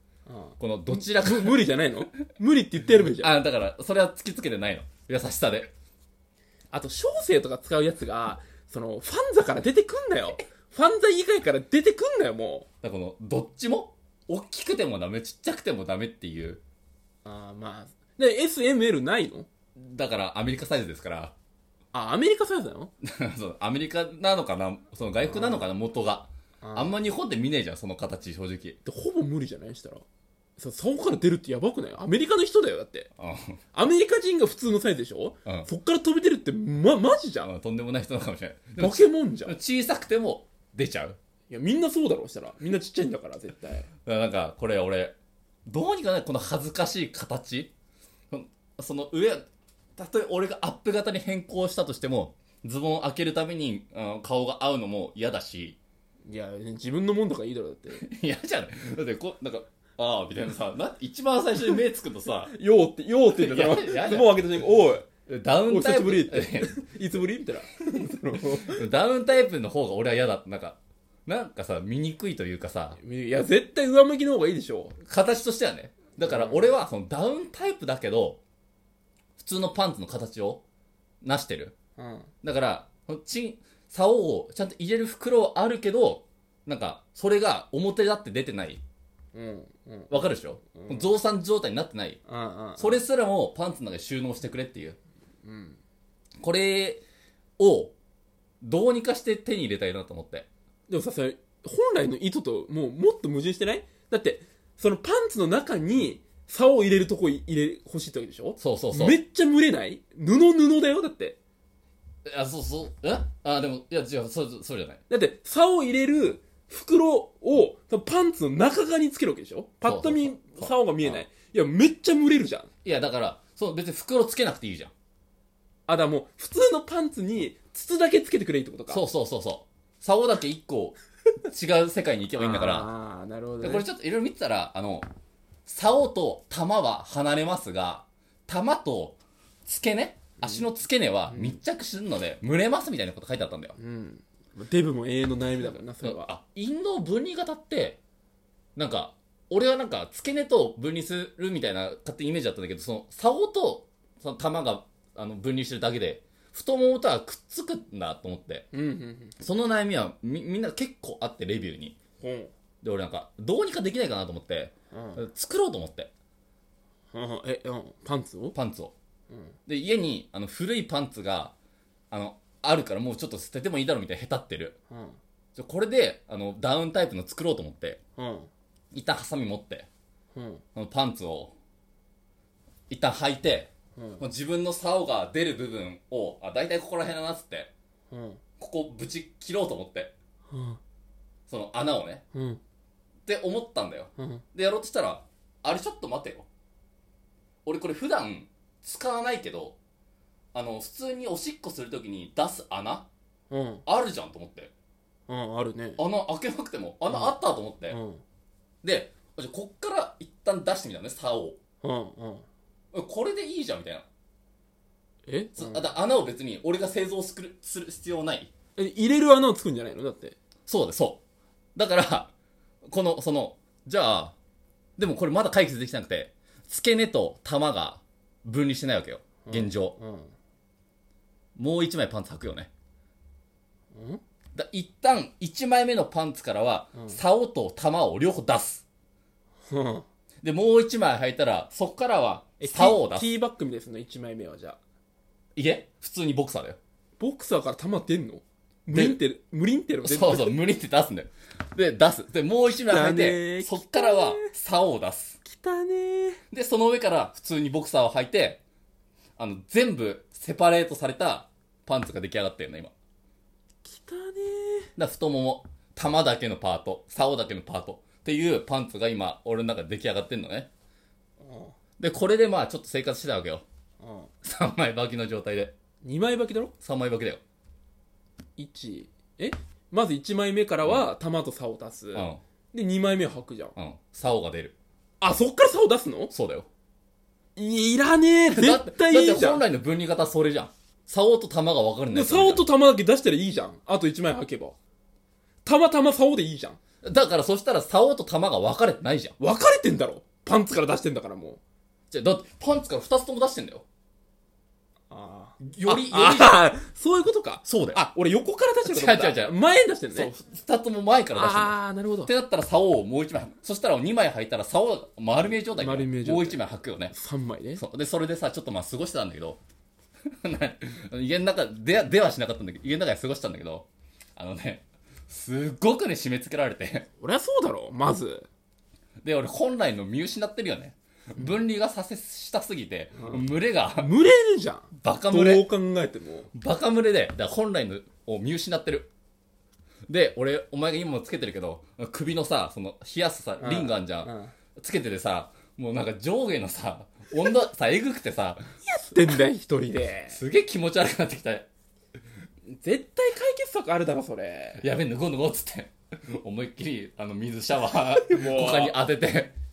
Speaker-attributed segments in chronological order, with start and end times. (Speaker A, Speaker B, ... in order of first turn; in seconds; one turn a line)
Speaker A: 0.3-3.3
Speaker B: 0.6-1.6
Speaker B: 3.2-5.7
Speaker A: 6.7-12.7
Speaker B: 12.8-16.6
Speaker A: 17.2-19.5
Speaker B: 19.8-21.3
Speaker A: 21.9-22.9
Speaker B: 23.0-28.8
Speaker A: 25.3-25.7
Speaker A: 26.6-26.9
Speaker A: 28.9-30.0
Speaker A: 30.6-33.1
Speaker B: 33.2-33.6
Speaker A: 33.7-37.5
Speaker B: 37.4-41.2
Speaker A: 38.8-39.5
Speaker A: 41.5-43.9
Speaker B: 44.0-45.1
Speaker B: 45.7-47.7
Speaker B: 48.3-49.4
Speaker B: 50.0-55.8
Speaker A: 56.2-58.0
Speaker B: 57.9-62.5
Speaker A: 62.5-65.1
Speaker B: 63.2-64.4
Speaker B: 65.3-66.7
Speaker A: 65.7-68.9
Speaker B: 68.6-73.0
Speaker A: 73.0-74.9
Speaker B: 75.0-78.4
Speaker A: 76.2-76.7
Speaker B: 79.4-80.6
Speaker B: 81.2-81.7
Speaker A: 82.0-82.3
Speaker B: 82.4-88.8
Speaker A: 89.3-91.1
Speaker B: 90.1-92.2
Speaker A: 92.2-93.0
Speaker B: 92.8-95.0
Speaker A: 95.4-95.8
Speaker B: 96.4-97.0
Speaker B: 97.6-97.9
Speaker B: 98.6-100.5
Speaker A: 100.9-111.4
Speaker B: 108.6-109.2
Speaker B: 112.2-115.0
Speaker A: 115.1-122.7
Speaker B: 119.8-121.2
Speaker B: 122.8-124.9
Speaker A: 125.9-129.0
Speaker B: 128.9-132.9
Speaker A: 132.4-133.8
Speaker B: 133.6-135.1
Speaker B: 135.7-143.8
Speaker A: 141.3-141.6
Speaker A: 143.8-146.3
Speaker B: 145.8-148.0
Speaker B: 148.8-158.7
Speaker A: 158.7-159.4
Speaker B: 159.4-162.0
Speaker A: 162.2-162.5
Speaker B: 162.8-166.1
Speaker A: 164.9-165.2
Speaker A: 167.1-168.6
Speaker B: 168.5-168.9
Speaker A: 169.3-169.5
Speaker B: 169.7-171.5
Speaker B: 172.1-174.8
Speaker A: 174.9-175.2
Speaker B: 175.5-178.0
Speaker A: 178.2-178.5
Speaker B: 178.9-179.9
Speaker A: 180.3-180.6
Speaker B: 180.7-181.5
Speaker B: 182.9-187.7
Speaker A: 184.0-184.2
Speaker A: 188.1-188.4
Speaker B: 188.6-190.1
Speaker A: 190.5-190.8
Speaker B: 191.5-192.2
Speaker A: 192.3-192.6
Speaker B: 193.2-196.5
Speaker A: 194.2-194.4
Speaker B: 197.6-199.8
Speaker B: 200.5-203.1
Speaker A: 203.5-203.8
Speaker B: 203.8-204.7
Speaker A: 205.3-206.0
Speaker B: 206.0-208.0
Speaker A: 207.1-207.3
Speaker A: 207.9-208.2
Speaker B: 208.8-211.6
Speaker A: 211.8-212.4
Speaker B: 212.9-214.1
Speaker A: 215.2-215.8
Speaker B: 215.6-218.5
Speaker A: 218.8-220.3
Speaker B: 220.7-221.2
Speaker B: 221.7-222.3
Speaker B: 222.8-224.3
Speaker B: 225.0-229.9
Speaker A: 229.4-230.3
Speaker B: 231.6-232.7
Speaker A: 233.9-234.2
Speaker B: 234.5-238.8
Speaker A: 236.9-237.2
Speaker A: 239.6-240.1
Speaker B: 240.4-243.3
Speaker A: 242.6-244.8
Speaker B: 245.6-246.8
Speaker A: 247.2-250.6
Speaker B: 248.9-249.2
Speaker B: 250.0-255.4
Speaker A: 252.8-254.5
Speaker A: 255.4-256.4
Speaker B: 256.5-258.6
Speaker B: 259.4-262.9
Speaker A: 263.8-264.9
Speaker B: 264.9-270.7
Speaker A: 271.4-271.8
Speaker B: 272.0-273.6
Speaker A: 274.0-274.3
Speaker B: 274.4-275.7
Speaker A: 276.0-276.7
Speaker B: 276.8-277.4
Speaker A: 278.6-283.8
Speaker B: 282.1-282.4
Speaker B: 283.8-284.7
Speaker A: 285.2-286.3
Speaker B: 286.3-286.7
Speaker A: 287.6-289.6
Speaker B: 288.5-292.7
Speaker A: 292.1-294.8
Speaker A: 295.6-296.8
Speaker B: 297.0-299.4
Speaker A: 299.4-301.6
Speaker B: 302.1-303.9
Speaker A: 305.1-310.3
Speaker B: 305.6-306.6
Speaker B: 307.6-308.0
Speaker B: 308.8-309.5
Speaker B: 310.1-317.1
Speaker A: 311.3-312.3
Speaker A: 315.7-317.8
Speaker B: 317.8-319.6
Speaker B: 320.4-327.1
Speaker A: 327.2-328.4
Speaker B: 329.2-334.1
Speaker A: 333.9-336.5
Speaker B: 335.0-335.6
Speaker B: 336.5-339.1
Speaker B: 340.1-348.6
Speaker A: 343.6-344.5
Speaker A: 348.8-350.4
Speaker B: 350.3-351.6
Speaker A: 352.6-354.8
Speaker B: 354.8-359.6
Speaker A: 358.1-358.9